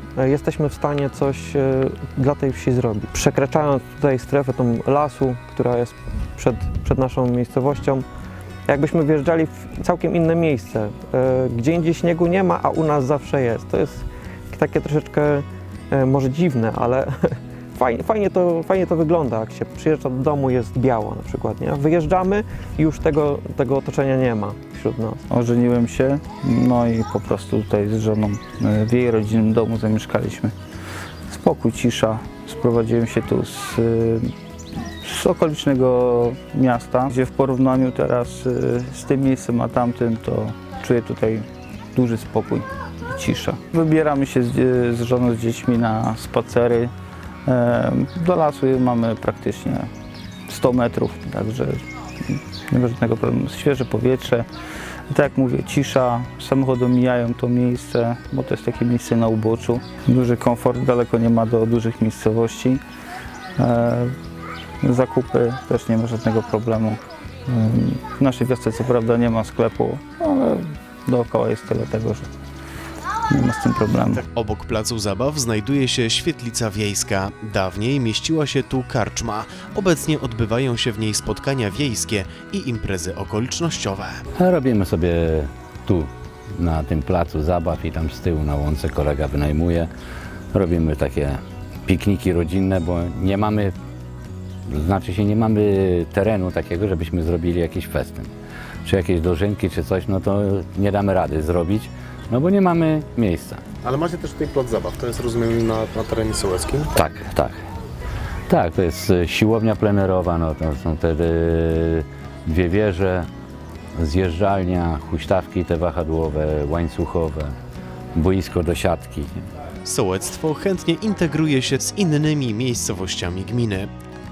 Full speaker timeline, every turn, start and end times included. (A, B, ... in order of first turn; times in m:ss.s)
0:00.2-0:08.0 A
0:08.7-0:25.2 A
0:25.3-0:30.5 B
0:31.3-0:34.3 B
0:35.0-0:46.9 B
0:47.4-0:49.9 B
0:50.5-0:51.8 B
0:52.7-0:54.5 B
0:55.1-1:02.8 B
1:03.6-1:04.1 B
1:04.8-1:12.3 B
1:13.3-1:14.2 B
1:14.1-1:24.2 C
1:24.4-1:29.9 D
1:30.5-1:33.7 D
1:34.7-1:38.3 D
1:38.8-1:43.6 D
1:43.8-1:46.9 E
1:47.0-1:47.6 D
1:48.5-1:53.3 D
1:54.0-1:57.5 D
1:58.2-1:59.5 D
1:59.8-2:03.9 C